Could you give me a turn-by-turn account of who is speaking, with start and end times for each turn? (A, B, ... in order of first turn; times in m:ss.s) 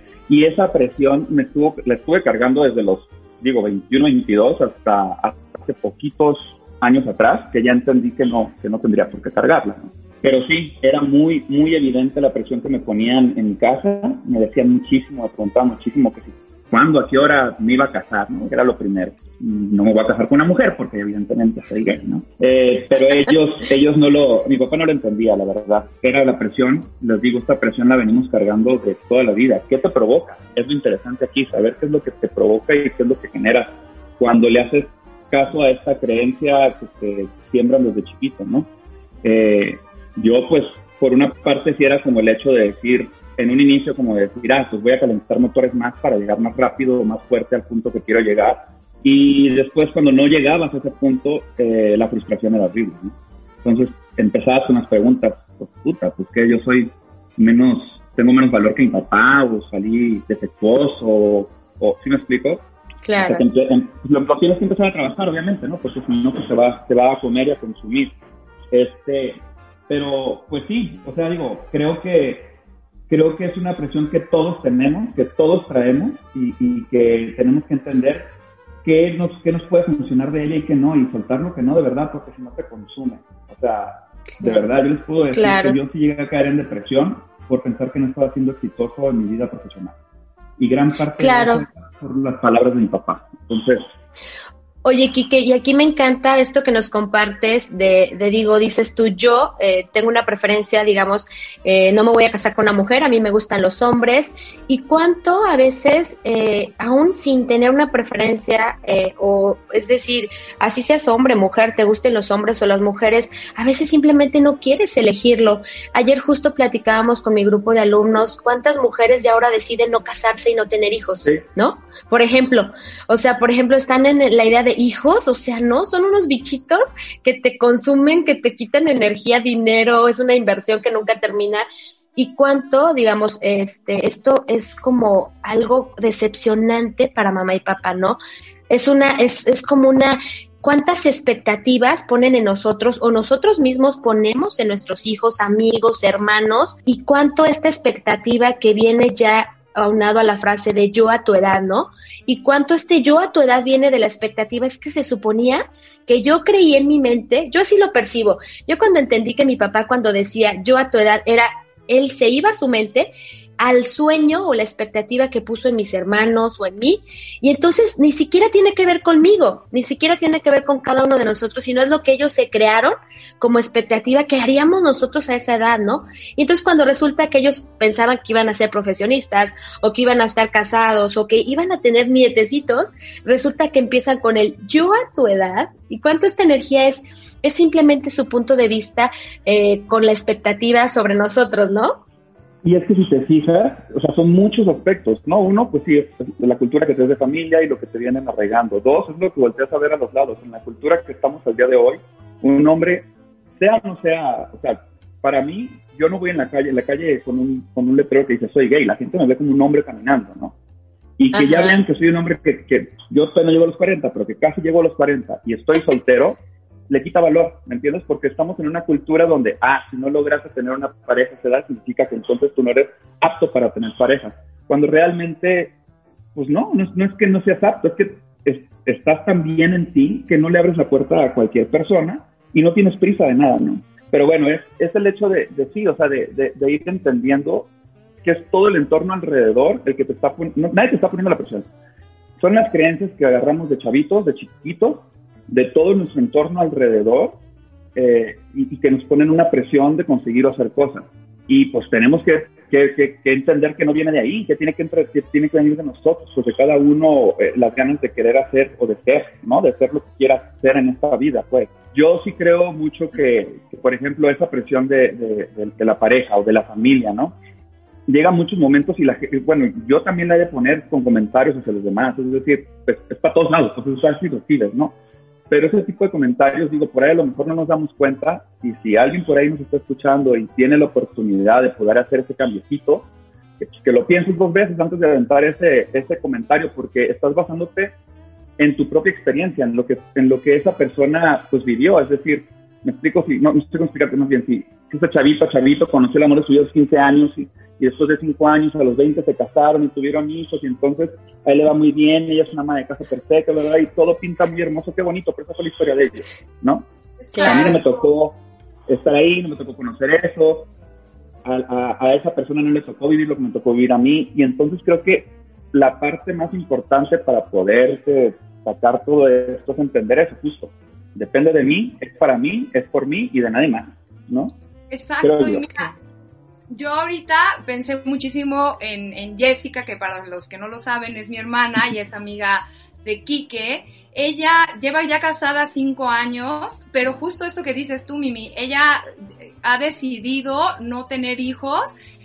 0:00.3-0:38.7 A
0:39.2-1:02.7 A
1:03.0-1:03.4 B
1:03.2-1:08.1 A
1:08.7-1:12.5 A
1:13.1-1:18.3 A
1:18.8-1:30.0 A
1:25.3-1:25.8 B
1:30.6-1:33.8 A
1:31.2-1:31.6 B
1:34.8-2:11.6 B
2:12.2-2:18.2 B
2:18.7-3:12.0 B
3:12.6-3:30.6 A
3:31.2-3:45.8 A
3:31.4-3:31.8 B
3:46.4-3:57.7 A
3:58.2-4:01.7 A
4:02.4-4:07.4 A
4:08.0-4:27.4 A
4:28.1-4:35.0 A
4:35.5-4:43.1 A
4:43.6-4:48.0 A
4:48.6-5:06.9 A
5:07.2-5:08.0 C
5:07.4-5:07.8 B
5:07.4-5:10.7 A
5:11.4-5:24.6 A
5:24.9-5:25.9 C
5:25.2-5:25.7 A
5:26.7-5:39.0 C
5:39.6-5:41.9 C